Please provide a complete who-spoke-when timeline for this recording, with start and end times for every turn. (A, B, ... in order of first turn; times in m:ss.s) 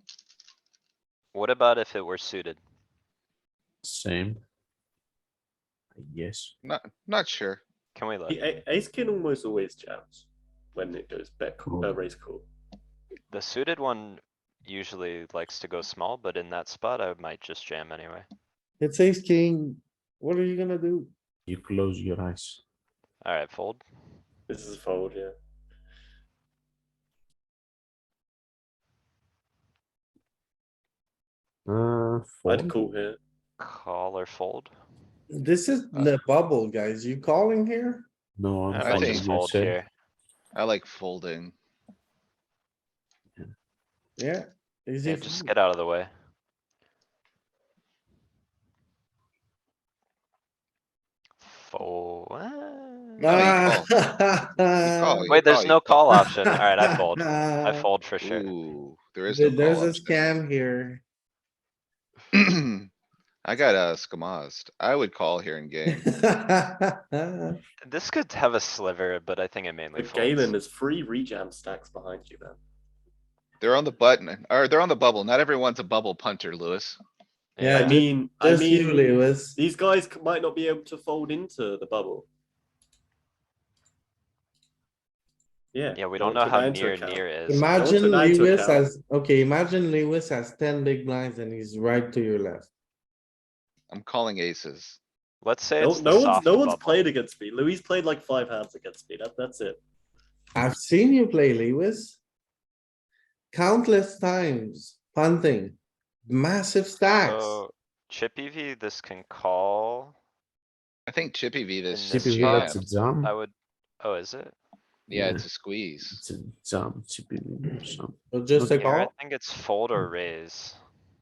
0:01.3-0:02.6 A
0:03.8-0:04.4 B
0:06.0-0:06.5 B
0:06.6-0:07.6 C
0:07.9-0:08.4 A
0:08.3-0:12.5 D
0:11.6-0:12.0 B
0:13.3-0:18.2 A
0:18.8-0:21.1 E
0:21.5-0:22.6 B
0:23.2-0:23.8 A
0:24.5-0:25.3 D
0:31.6-0:32.8 B
0:32.5-0:33.2 D
0:33.6-0:34.7 A
0:35.3-0:38.1 E
0:38.4-0:39.8 B
0:38.7-0:39.9 A
0:38.8-0:39.3 C
0:40.5-0:41.5 C
0:44.2-0:45.5 E
0:45.0-0:46.1 A
0:51.4-0:53.6 A
0:53.2-0:55.4 E
0:53.3-0:53.9 C
0:54.8-0:56.0 C
0:55.3-0:58.5 A
0:56.1-0:57.8 E
0:58.2-1:00.3 C
0:59.2-1:01.0 E
1:02.3-1:02.9 C
1:03.4-1:06.0 C
1:05.9-1:07.6 E
1:07.8-1:10.5 A
1:10.0-1:12.6 D
1:13.6-1:17.0 C
1:17.6-1:18.0 A
1:17.6-1:19.6 E
1:17.7-1:22.3 D
1:25.7-1:28.8 D
1:25.9-1:27.8 A
1:27.5-1:32.7 E
1:33.9-1:35.0 C
1:35.4-1:37.1 A
1:35.8-1:39.8 D
1:40.5-1:42.2 E
1:43.5-1:47.6 E
1:47.2-1:50.1 A
1:51.1-1:52.8 C
1:51.9-1:54.5 A
1:52.1-1:53.3 B
1:55.1-1:56.2 C
1:55.1-1:55.4 B
1:56.1-1:58.8 B
1:58.3-1:59.1 E
1:58.8-2:00.8 A